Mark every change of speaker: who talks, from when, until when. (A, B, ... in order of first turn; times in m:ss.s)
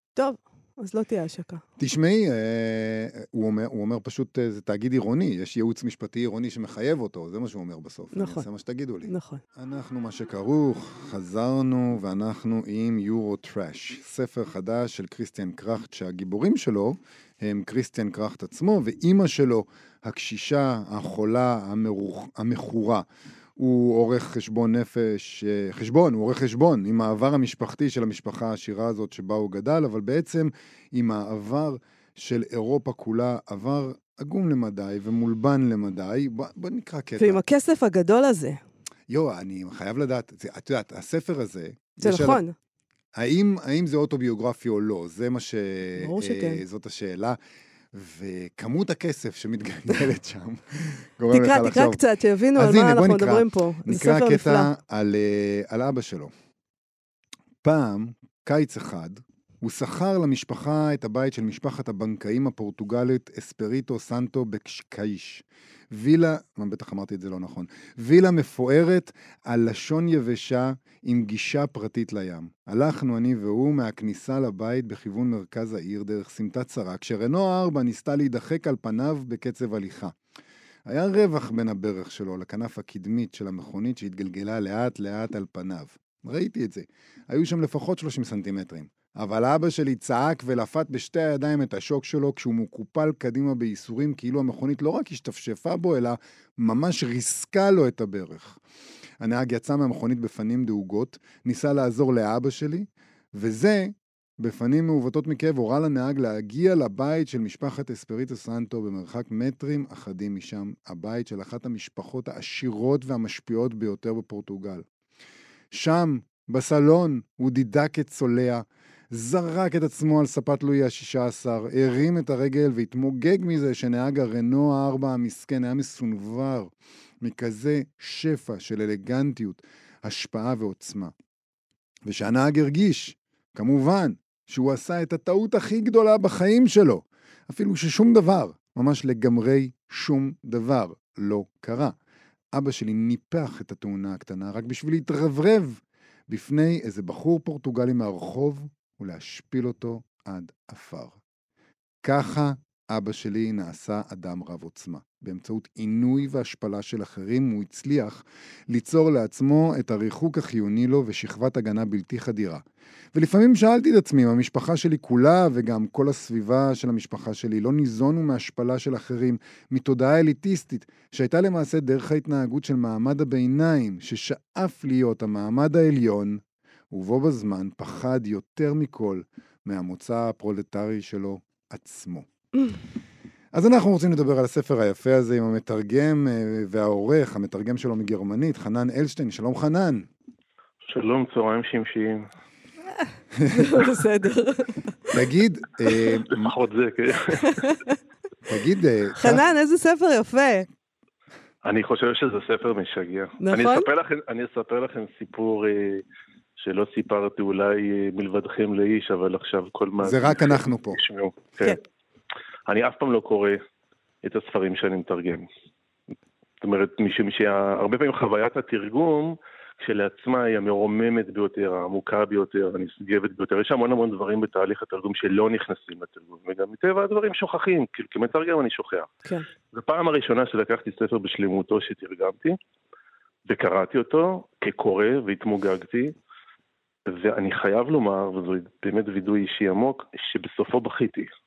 0:00.2-0:01.6 A
0:01.8-0:23.0 B
0:08.1-0:08.4 A
0:09.1-0:09.4 A
0:23.6-0:37.4 B
0:37.2-0:38.6 A
0:39.1-0:42.4 B
0:42.0-0:42.5 A
0:43.2-0:47.4 B
0:46.0-0:46.6 A
0:47.9-0:52.0 B
0:51.3-0:54.7 A
0:52.5-0:56.3 B
0:57.6-1:20.1 B
1:20.8-1:38.6 B
1:39.2-1:54.8 B
1:55.7-2:11.1 B
2:12.0-2:22.0 B
2:22.5-2:31.2 B
2:32.0-2:42.6 B
2:43.1-3:02.3 B
3:03.5-3:10.1 B
3:10.9-3:12.3 C
3:13.4-3:13.7 B
3:13.5-3:15.1 A
3:15.1-3:16.5 B
3:16.3-3:17.7 C
3:18.5-3:19.4 B
3:19.2-3:20.7 A
3:21.6-3:26.0 C
3:23.4-3:23.9 A
3:26.6-3:31.8 C
3:30.0-3:31.0 B
3:32.7-3:33.6 C
3:34.2-3:35.5 C
3:36.6-3:49.1 C
3:49.7-3:52.6 C
3:53.5-3:56.1 C
3:57.0-4:01.3 C